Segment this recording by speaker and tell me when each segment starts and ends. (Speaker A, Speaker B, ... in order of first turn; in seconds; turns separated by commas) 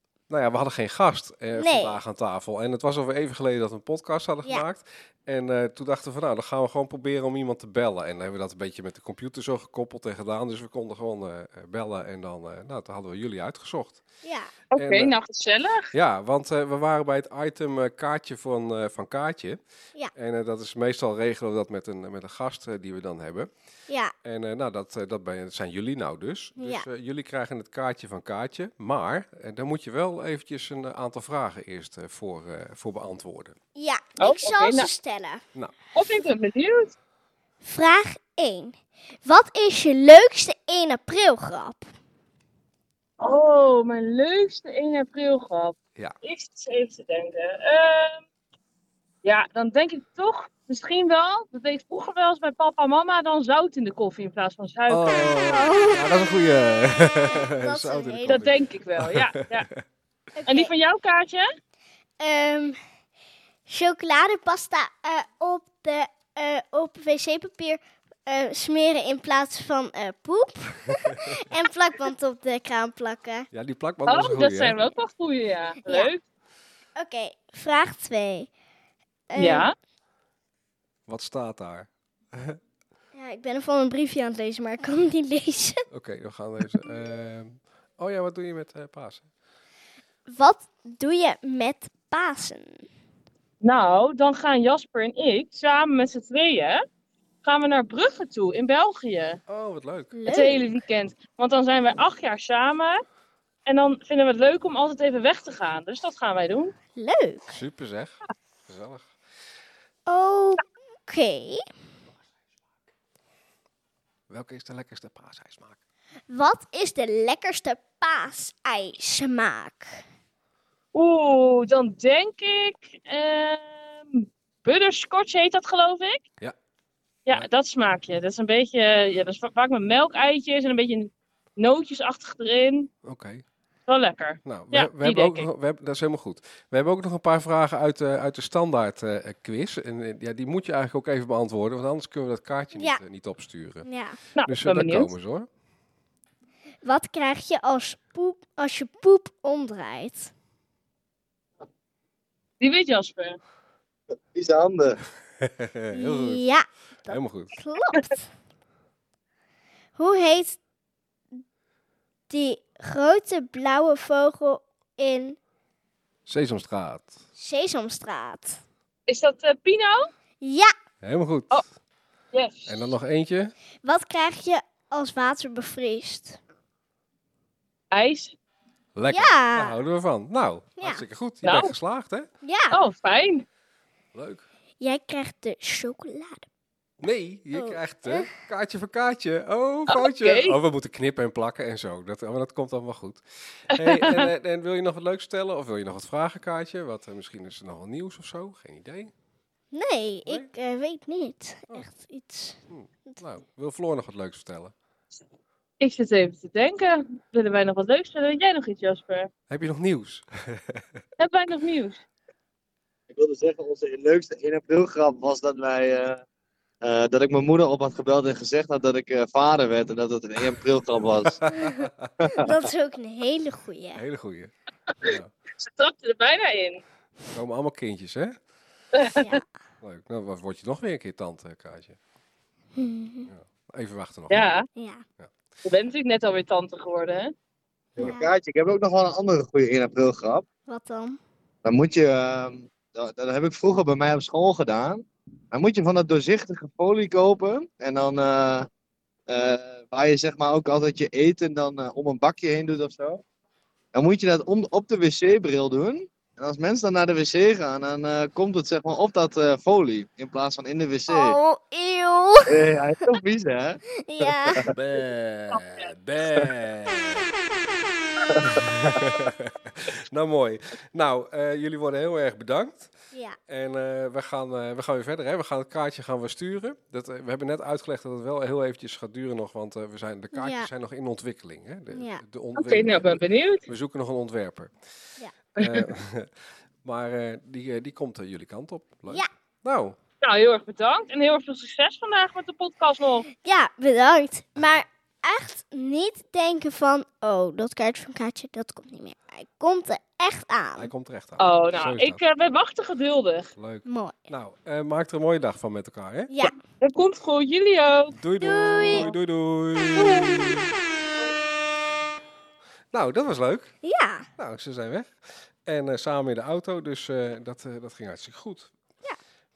Speaker A: 0.3-14.0, Speaker B: 1.6-2.0, Speaker B: 14.2-14.5, Speaker A: 14.7-15.1, Speaker C: 14.7-15.9, Speaker A: 15.9-19.6, Speaker A: 20.1-23.5, Speaker B: 23.9-24.1, Speaker A: 24.2-33.6, Speaker B: 26.6-26.9, Speaker B: 33.8-35.4, Speaker C: 34.2-34.9, Speaker C: 36.0-37.0, Speaker B: 37.6-41.9, Speaker C: 43.2-48.2, Speaker C: 49.2-55.3, Speaker A: 54.9-59.8, Speaker B: 55.5-56.0, Speaker B: 57.3-58.5, Speaker C: 58.3-59.7, Speaker B: 60.4-60.7, Speaker C: 60.5-61.5, Speaker B: 62.2-62.8, Speaker B: 63.7-73.5, Speaker A: 71.1-71.4, Speaker A: 73.5-74.8, Speaker C: 74.1-76.2, Speaker B: 77.0-78.5, Speaker B: 79.3-79.7, Speaker C: 79.4-79.7, Speaker A: 81.1-82.6, Speaker B: 83.2-85.8, Speaker A: 85.9-89.3, Speaker B: 90.3-92.8, Speaker C: 93.6-96.8, Speaker C: 97.4-99.4, Speaker A: 99.5-100.2, Speaker B: 100.2-100.6, Speaker C: 100.3-103.0, Speaker C: 103.7-106.8, Speaker B: 107.0-107.6, Speaker A: 107.5-109.1, Speaker B: 110.1-111.6, Speaker A: 114.3-115.8, Speaker B: 116.3-120.0, Speaker C: 120.9-126.2, Speaker C: 127.3-132.9, Speaker A: 133.0-133.4, Speaker C: 133.9-135.5, Speaker A: 134.4-143.9, Speaker B: 142.8-143.0, Speaker B: 143.8-144.2, Speaker C: 144.4-145.1, Speaker A: 144.4-145.5, Speaker B: 146.8-150.3, Speaker C: 152.6-153.4, Speaker D: 154.3-155.0, Speaker A: 155.4-156.4, Speaker B: 155.9-158.3, Speaker A: 157.1-157.6, Speaker B: 160.0-160.6, Speaker B: 162.3-165.4, Speaker A: 166.3-167.1, Speaker B: 167.4-168.6, Speaker C: 169.1-170.1, Speaker B: 170.4-170.7, Speaker A: 171.0-171.7, Speaker C: 172.3-172.8, Speaker A: 172.7-173.5, Speaker B: 173.8-176.4, Speaker C: 177.9-178.4, Speaker A: 178.9-182.3, Speaker B: 179.1-179.8, Speaker B: 180.8-181.0, Speaker C: 181.4-181.7, Speaker B: 182.4-182.8, Speaker C: 182.7-183.4, Speaker A: 184.1-184.5, Speaker B: 184.8-186.5, Speaker A: 187.0-199.1, Speaker B: 187.5-188.3, Speaker C: 189.9-190.6, Speaker C: 193.7-194.3, Speaker B: 199.7-202.6, Speaker A: 202.7-204.7, Speaker C: 205.8-209.3, Speaker A: 209.5-211.0, Speaker C: 211.2-212.0, Speaker D: 213.1-216.2, Speaker D: 216.8-221.4, Speaker A: 221.2-222.1, Speaker B: 221.5-224.0, Speaker D: 222.2-222.6, Speaker A: 223.9-225.3, Speaker C: 225.0-226.8, Speaker A: 227.3-228.4, Speaker C: 228.9-229.4, Speaker B: 229.2-229.5, Speaker A: 229.8-232.0, Speaker B: 232.8-233.3, Speaker A: 233.3-234.5, Speaker C: 234.3-234.7, Speaker B: 234.8-235.0, Speaker C: 235.7-237.3, Speaker D: 238.0-240.5, Speaker B: 238.0-238.3, Speaker B: 240.7-241.2, Speaker D: 241.7-248.7, Speaker D: 249.3-253.2, Speaker D: 253.9-261.4, Speaker B: 261.1-262.7, Speaker D: 262.5-264.7, Speaker B: 264.0-264.6, Speaker A: 264.7-267.3, Speaker C: 265.5-265.9, Speaker D: 268.3-269.1, Speaker A: 268.4-272.9, Speaker B: 273.1-273.4, Speaker A: 273.5-284.7, Speaker B: 280.3-280.7, Speaker B: 281.9-282.2, Speaker C: 282.6-283.7, Speaker C: 285.6-285.9, Speaker A: 285.6-286.3, Speaker A: 286.8-290.0, Speaker C: 290.2-293.3, Speaker B: 293.4-300.9, Speaker A: 300.8-302.2, Speaker C: 301.4-303.5, Speaker A: 303.6-306.3, Speaker B: 303.9-304.3, Speaker C: 306.8-308.2, Speaker A: 308.1-310.7, Speaker B: 308.4-309.1, Speaker C: 310.0-310.6, Speaker A: 312.9-313.7, Speaker B: 313.8-314.3, Speaker A: 314.4-315.1, Speaker A: 315.6-318.7